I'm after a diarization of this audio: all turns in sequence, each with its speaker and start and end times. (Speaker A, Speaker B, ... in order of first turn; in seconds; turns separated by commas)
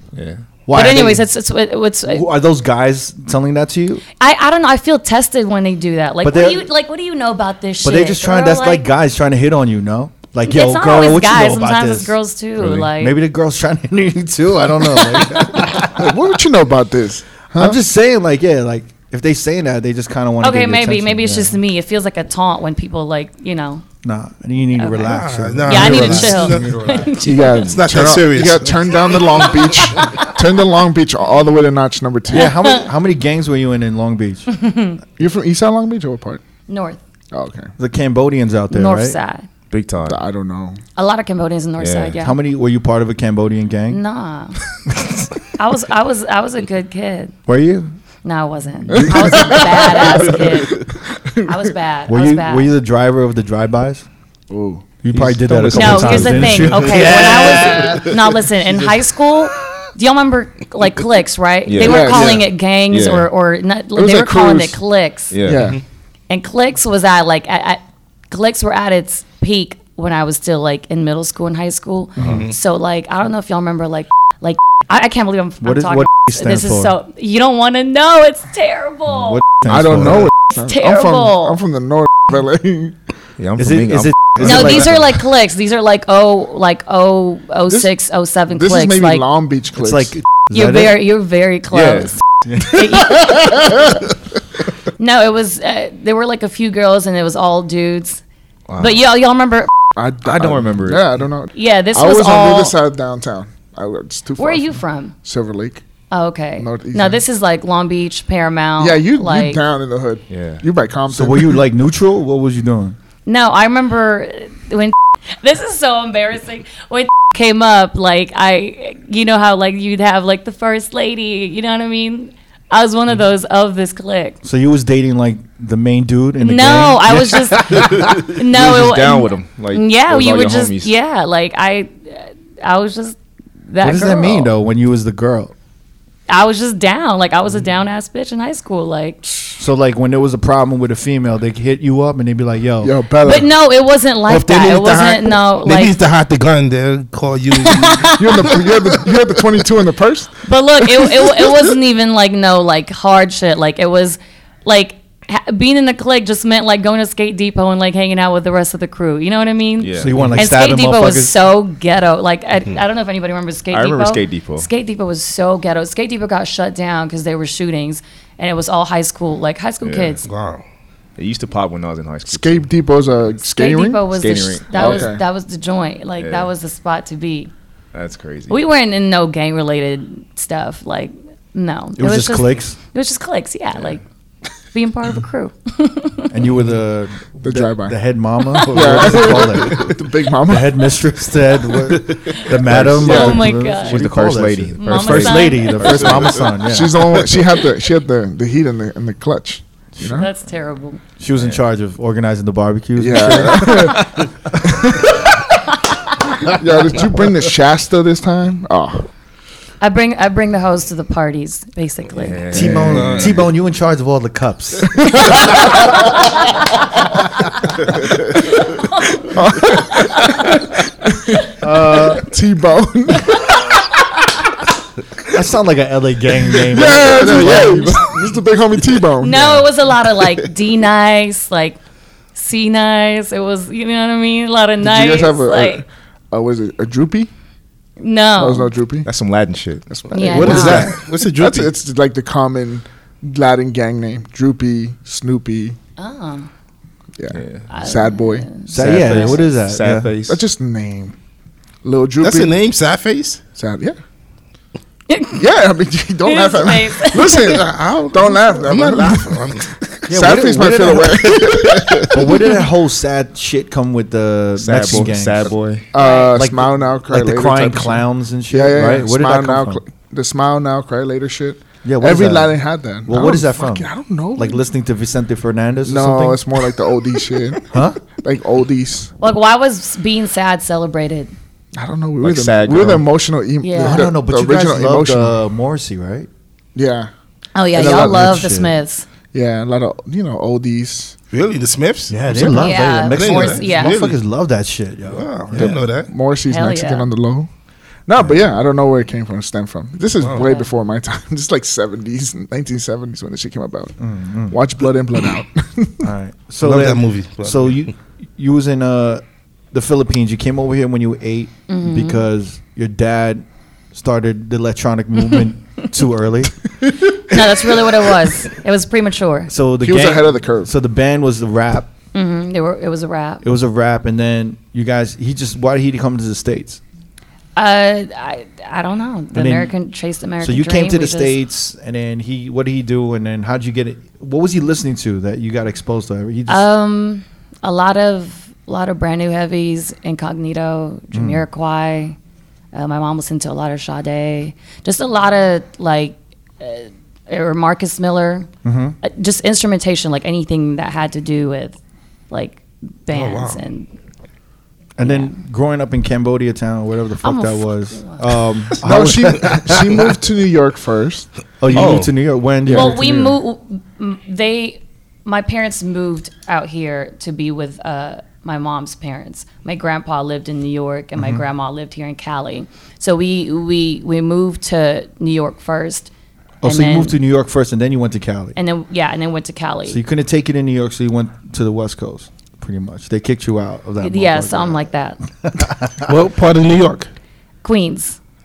Speaker A: 0.1-0.4, Speaker B: 0.7-1.3, Speaker C: 0.7-2.2, Speaker B: 2.0-4.0, Speaker C: 4.2-8.8, Speaker B: 6.2-6.7, Speaker B: 7.8-16.2, Speaker C: 10.4-13.2, Speaker C: 15.1-15.8, Speaker D: 15.9-17.8, Speaker B: 17.6-21.6, Speaker C: 20.4-23.8, Speaker B: 24.0-27.1, Speaker C: 24.8-27.7, Speaker E: 25.1-26.9, Speaker D: 27.2-32.5, Speaker E: 27.6-29.4, Speaker B: 32.3-34.5, Speaker C: 32.4-32.9, Speaker C: 34.5-35.0, Speaker D: 35.2-36.4, Speaker C: 36.7-37.0, Speaker D: 37.3-37.7, Speaker B: 37.8-39.2, Speaker C: 38.7-39.5, Speaker A: 39.7-40.2, Speaker D: 40.0-40.8, Speaker C: 41.0-42.4, Speaker A: 41.8-42.1, Speaker B: 42.2-44.0, Speaker C: 43.9-44.6, Speaker C: 45.5-47.3, Speaker B: 47.5-47.9, Speaker C: 48.2-50.8, Speaker D: 48.9-51.6, Speaker B: 48.9-49.4, Speaker C: 51.4-52.7, Speaker B: 52.1-54.0, Speaker D: 54.5-54.8, Speaker B: 55.0-57.9, Speaker A: 55.1-57.0, Speaker C: 55.7-65.3, Speaker E: 57.0-58.0, Speaker A: 61.7-63.3, Speaker D: 61.8-62.5, Speaker D: 63.9-64.8, Speaker A: 65.3-65.7, Speaker D: 65.4-65.8, Speaker C: 66.3-79.4, Speaker E: 72.2-72.5, Speaker B: 75.6-76.9, Speaker B: 79.1-80.3, Speaker D: 79.7-83.0, Speaker C: 80.5-81.6, Speaker A: 83.4-84.9, Speaker B: 83.6-85.1, Speaker C: 84.4-89.2, Speaker D: 88.5-90.1, Speaker B: 89.8-91.0, Speaker C: 90.5-93.8, Speaker A: 91.7-92.1, Speaker B: 92.5-92.8, Speaker C: 95.0-98.2, Speaker A: 98.7-99.0, Speaker C: 98.8-99.7, Speaker D: 99.9-105.8, Speaker A: 100.2-101.2, Speaker C: 101.5-102.7, Speaker C: 104.4-105.1, Speaker C: 106.1-109.6, Speaker D: 106.6-107.2, Speaker D: 108.8-111.6, Speaker A: 110.3-110.6, Speaker B: 111.1-113.0, Speaker C: 113.2-124.4, Speaker B: 124.4-128.0, Speaker C: 126.4-134.5, Speaker A: 127.7-130.9, Speaker B: 133.8-135.5, Speaker C: 136.3-139.2, Speaker B: 139.6-142.9, Speaker D: 142.8-143.5, Speaker C: 143.2-145.9, Speaker E: 144.3-148.2, Speaker C: 147.6-148.7, Speaker D: 148.2-150.4, Speaker C: 150.4-170.2, Speaker A: 159.8-160.3, Speaker B: 160.0-161.3, Speaker A: 163.7-164.7, Speaker A: 169.8-170.2, Speaker E: 170.2-170.6, Speaker A: 171.2-172.7, Speaker D: 172.3-174.0, Speaker C: 173.5-177.5, Speaker A: 174.2-175.1, Speaker D: 174.7-175.2, Speaker A: 176.2-176.5, Speaker A: 177.9-178.6, Speaker C: 178.5-184.0, Speaker B: 182.0-182.8, Speaker C: 184.7-186.4, Speaker B: 186.3-197.2, Speaker D: 187.4-188.0, Speaker D: 188.6-190.8, Speaker A: 192.5-196.6, Speaker D: 193.0-193.4, Speaker C: 193.0-194.1, Speaker C: 194.8-196.2, Speaker D: 196.6-200.3, Speaker B: 200.0-200.2, Speaker C: 200.1-201.0, Speaker B: 201.2-204.2, Speaker D: 203.0-205.2, Speaker D: 206.3-209.1, Speaker C: 209.8-212.5, Speaker A: 212.2-213.4, Speaker B: 212.5-215.5, Speaker D: 212.6-213.2, Speaker E: 213.0-213.3, Speaker D: 215.0-215.9, Speaker D: 219.1-223.7, Speaker B: 221.6-222.2, Speaker B: 225.2-228.1, Speaker D: 226.6-229.6, Speaker C: 229.2-231.8, Speaker C: 232.3-235.8, Speaker D: 234.8-237.3, Speaker C: 238.0-238.7, Speaker D: 238.4-239.1, Speaker A: 239.0-239.9, Speaker D: 239.9-245.8, Speaker C: 240.1-240.9, Speaker E: 240.2-241.7, Speaker C: 246.0-246.5, Speaker D: 247.2-248.5, Speaker A: 247.3-247.7, Speaker C: 247.7-249.5, Speaker B: 248.7-250.1, Speaker A: 248.7-250.4, Speaker D: 250.3-251.2, Speaker D: 251.8-252.6, Speaker E: 252.2-253.4, Speaker D: 253.5-254.0, Speaker C: 255.1-255.4, Speaker D: 255.3-262.6, Speaker C: 256.2-257.6, Speaker E: 257.4-260.1, Speaker B: 260.1-265.5, Speaker E: 261.8-262.0, Speaker A: 264.6-265.9, Speaker D: 265.9-274.6, Speaker C: 265.9-266.4, Speaker B: 266.2-269.8, Speaker B: 271.8-276.4, Speaker D: 275.9-279.1, Speaker B: 277.7-278.0, Speaker C: 279.2-281.3, Speaker D: 281.8-285.3, Speaker A: 282.2-283.1, Speaker C: 283.6-284.0, Speaker B: 283.8-286.3, Speaker D: 286.7-287.1, Speaker C: 287.5-289.1, Speaker B: 287.7-288.7, Speaker D: 287.8-288.3, Speaker D: 289.3-291.1, Speaker E: 291.3-294.2, Speaker B: 292.1-295.8, Speaker C: 292.5-294.0, Speaker E: 295.1-296.1, Speaker D: 295.5-297.5, Speaker C: 296.5-297.1, Speaker D: 298.1-303.9, Speaker C: 300.4-300.7, Speaker B: 304.0-304.6, Speaker D: 304.5-306.1, Speaker B: 306.0-316.6, Speaker E: 306.6-307.9, Speaker C: 311.7-312.2, Speaker C: 317.3-319.5, Speaker B: 317.3-317.7, Speaker B: 319.5-321.9, Speaker D: 319.8-320.7, Speaker C: 322.1-323.4, Speaker B: 323.4-326.8, Speaker C: 327.6-331.4, Speaker B: 329.3-329.7, Speaker B: 330.4-336.6, Speaker C: 336.5-342.1, Speaker B: 341.1-341.4, Speaker C: 342.7-348.5, Speaker B: 348.6-349.0, Speaker C: 349.0-351.8, Speaker C: 352.3-353.9, Speaker E: 353.1-353.6, Speaker B: 354.9-360.2, Speaker C: 355.0-355.4, Speaker C: 357.2-358.2, Speaker D: 358.8-361.3, Speaker B: 361.6-363.4, Speaker A: 361.7-362.1, Speaker D: 362.6-363.0, Speaker C: 362.7-376.1, Speaker B: 371.1-371.4, Speaker B: 376.6-378.6, Speaker C: 376.6-377.1, Speaker C: 378.6-380.0, Speaker B: 379.9-384.9, Speaker C: 384.0-385.2, Speaker B: 385.4-386.1, Speaker E: 386.0-387.1, Speaker C: 387.6-388.2